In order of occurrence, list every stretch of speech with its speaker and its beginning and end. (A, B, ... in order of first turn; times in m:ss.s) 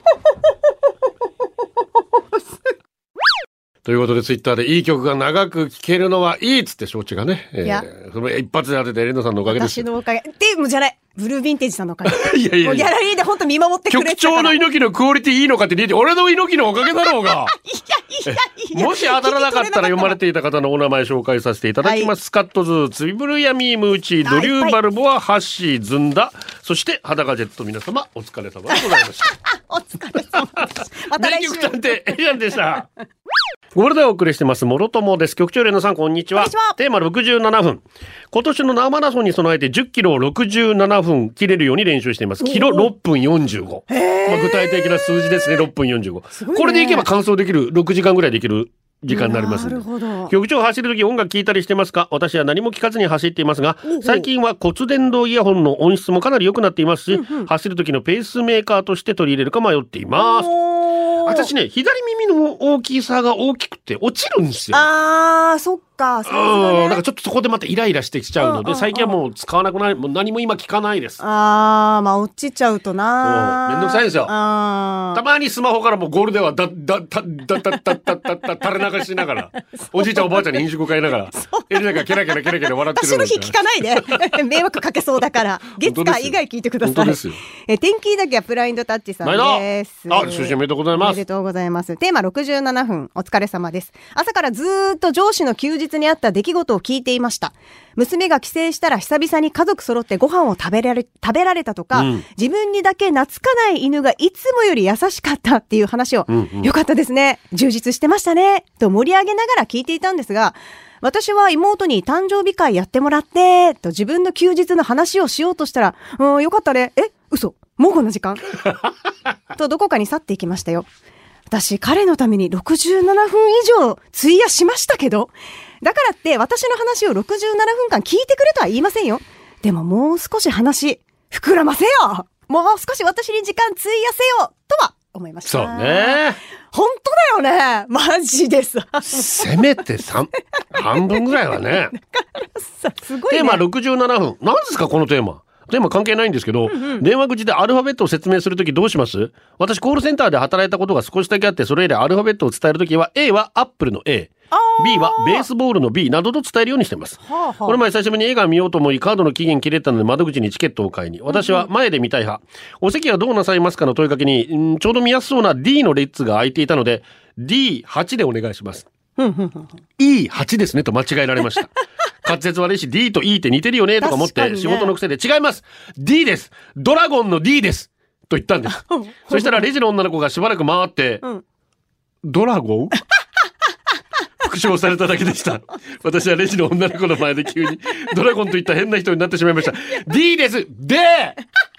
0:03.8-0:09.8 A
0:09.5-0:14.6 B
0:12.0-0:12.9 A
0:13.9-0:17.5 A
0:17.6-0:20.2 B
0:18.3-0:29.3 A
0:21.8-0:22.1 B
0:24.2-0:24.8 B
0:28.7-0:31.8 B
0:30.6-0:32.9 A
0:33.7-1:00.5 A
0:36.4-0:36.8 B
0:42.4-0:42.9 B
0:43.9-0:45.6 B
0:46.4-0:47.1 B
0:49.1-0:50.3 B
0:53.8-0:54.3 B
0:57.1-0:57.5 B
1:00.2-1:01.5 B
1:01.2-1:04.9 A
1:04.7-1:07.0 B
1:06.3-1:11.2 A
1:08.4-1:09.2 B
1:11.2-1:15.2 B
1:13.2-1:14.3 A
1:15.1-1:24.3 A
1:19.8-1:20.4 B
1:21.3-1:58.5 B
1:25.8-1:27.4 A
1:29.2-1:31.2 A
1:41.9-1:42.2 A
1:46.3-1:46.7 A
1:59.6-2:00.9 B
2:01.5-2:19.5 B
2:15.5-2:16.4 A
2:19.1-2:21.9 A
2:20.8-2:21.4 B
2:21.9-2:23.6 B
2:23.3-2:48.9 A
2:26.7-2:27.0 B
2:34.5-2:35.5 B
2:37.2-2:37.8 B
2:41.3-2:41.7 B
2:49.2-2:49.8 B
2:50.0-2:51.7 A
2:52.2-3:01.2 A
2:54.0-2:55.0 B
2:58.8-2:59.6 B
3:02.2-3:03.0 A
3:04.4-3:11.4 A